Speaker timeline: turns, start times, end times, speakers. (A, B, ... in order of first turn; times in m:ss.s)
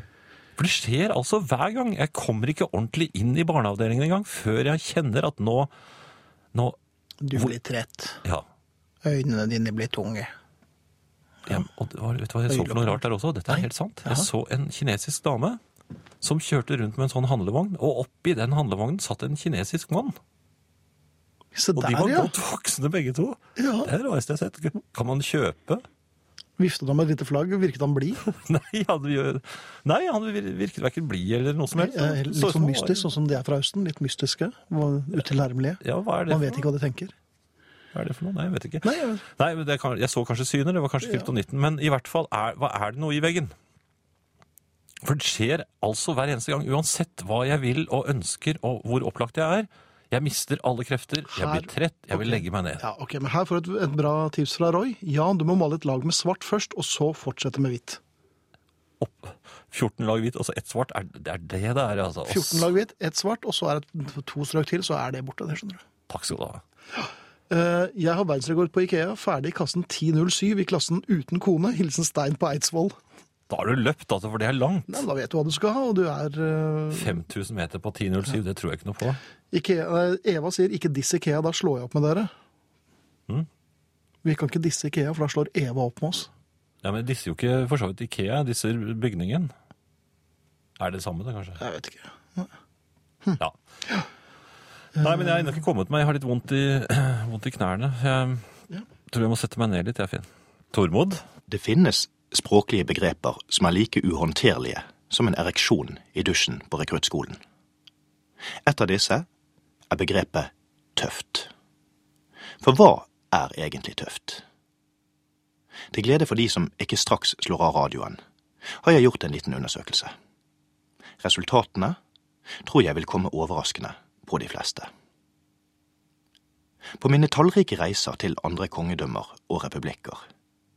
0:00.6-0:05.7 A
0:07.2-0:08.2 B
0:09.0-0:10.3 B
0:11.5-0:15.6 A
0:12.5-0:14.3 B
0:16.2-0:20.2 A
0:21.5-0:22.3 B
0:21.8-0:25.8 A
0:23.6-0:23.9 B
0:26.6-0:28.2 B
0:28.3-0:33.1 A
0:31.7-0:37.1 B
0:35.8-0:36.6 A
0:37.9-0:43.5 A
0:38.8-0:39.2 B
0:41.0-0:41.3 B
0:45.0-0:52.8 A
0:51.3-0:58.0 B
0:59.0-1:02.7 A
1:02.3-1:05.8 B
1:06.1-1:06.6 A
1:06.9-1:13.0 B
1:13.5-1:15.0 A
1:14.9-1:17.2 B
1:16.9-1:19.2 A
1:19.5-1:22.3 B
1:24.2-1:26.3 B
1:26.8-1:29.5 A
1:30.8-1:31.6 A
1:31.6-1:32.5 B
1:33.2-1:34.1 B
1:35.0-1:35.6 B
1:35.0-1:38.4 A
1:39.1-1:41.2 A
1:41.5-1:47.4 C
1:48.6-1:49.3 C
1:49.9-1:51.5 C
1:52.6-1:54.4 C
1:55.9-1:58.2 C
1:58.8-2:00.1 C
2:01.2-2:02.0 C
2:02.6-2:04.9 C
2:07.0-2:10.2 C